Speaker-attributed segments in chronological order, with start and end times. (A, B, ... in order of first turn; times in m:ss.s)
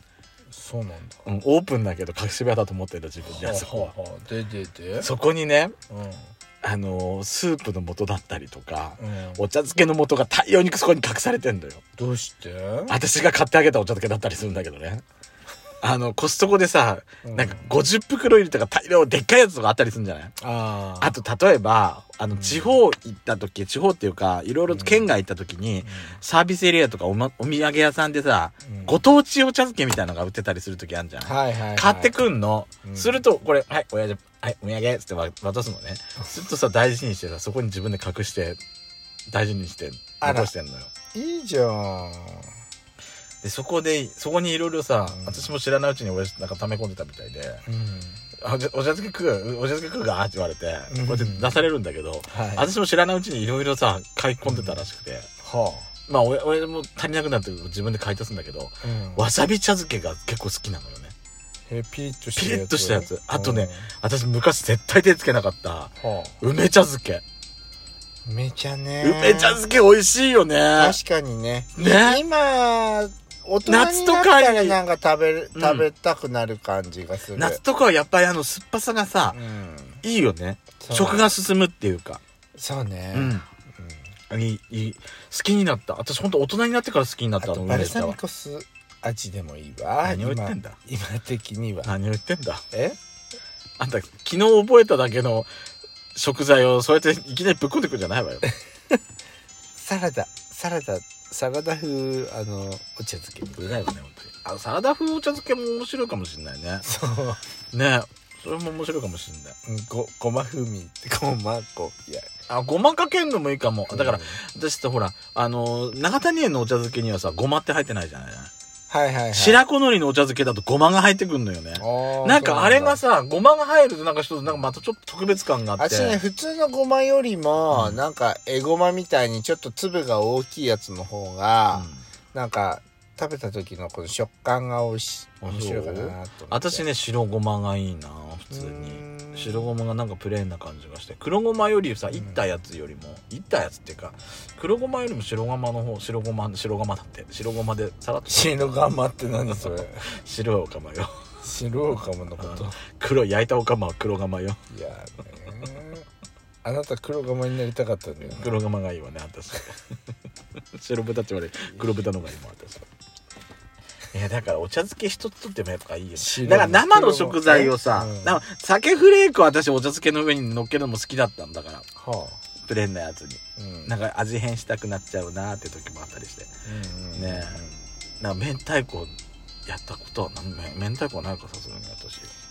0:00.5-0:01.2 A
0:01.2-0:03.9 B
0:03.3-0:05.1 A
0:05.0-0:05.8 B
0:05.9-0:06.2 A
0:06.6-0:11.8 B
0:09.0-0:09.4 A
0:12.0-0:12.9 A
0:12.9-0:15.0 B
0:15.8-0:20.3 B
0:17.2-0:17.7 A
0:20.4-0:21.1 A
0:21.0-0:38.6 B
0:22.3-0:22.8 A
0:24.7-0:25.1 A
0:25.8-0:26.2 A
0:28.6-0:29.0 A
0:31.2-0:32.1 A
0:32.8-0:33.2 A
0:39.3-0:40.9 B
0:40.2-0:40.5 A
0:41.1-0:42.6 A
0:43.4-0:47.6 B
0:45.1-0:45.5 A
0:47.7-0:48.2 A
0:48.4-0:55.3 B
0:50.9-0:51.7 A
0:52.3-0:52.7 A
0:54.4-0:54.9 A
0:55.4-0:55.9 A
0:56.1-1:01.1 B
0:58.8-0:59.3 A
1:01.7-1:03.9 A
1:02.4-1:07.2 B
1:06.0-1:06.4 A
1:08.2-1:09.6 A
1:09.0-1:11.0 B
1:10.8-1:17.6 A
1:11.8-1:12.2 B
1:13.6-1:14.8 B
1:15.6-1:15.9 B
1:17.4-1:19.4 B
1:19.3-1:20.0 A
1:20.0-1:22.2 B
1:20.8-1:21.3 A
1:22.6-1:24.0 A
1:23.1-1:23.5 B
1:24.3-1:28.2 B
1:27.4-1:31.9 A
1:30.0-1:30.8 B
1:31.8-1:32.6 B
1:32.7-1:33.0 A
1:33.8-1:35.5 B
1:36.2-1:38.5 B
1:39.8-1:43.6 A
1:43.6-1:46.9 B
1:46.8-1:47.4 A
1:47.7-1:49.6 B
1:49.7-1:52.3 A
1:52.5-1:58.5 B
1:53.9-1:54.4 A
1:58.9-1:59.6 A
1:59.3-2:06.2 B
2:01.8-2:03.0 A
2:05.8-2:16.8 A
2:07.7-2:08.0 B
2:11.7-2:12.0 B
2:15.4-2:28.5 B
2:18.5-2:19.7 A
2:22.1-2:22.4 A
2:28.3-2:30.1 A
2:29.5-2:31.3 B
2:31.4-2:32.8 A
2:32.4-2:34.6 B
2:34.7-2:36.1 A
2:36.6-2:38.5 A
2:38.2-2:39.8 B
2:40.8-2:42.8 B
2:44.1-2:51.9 B
2:46.2-2:48.4 A
2:52.0-2:52.4 A
2:52.6-2:56.5 B
2:53.6-2:53.9 A
2:56.6-2:57.7 A
2:57.1-2:57.6 B
2:58.2-2:59.2 B
2:59.7-3:02.3 B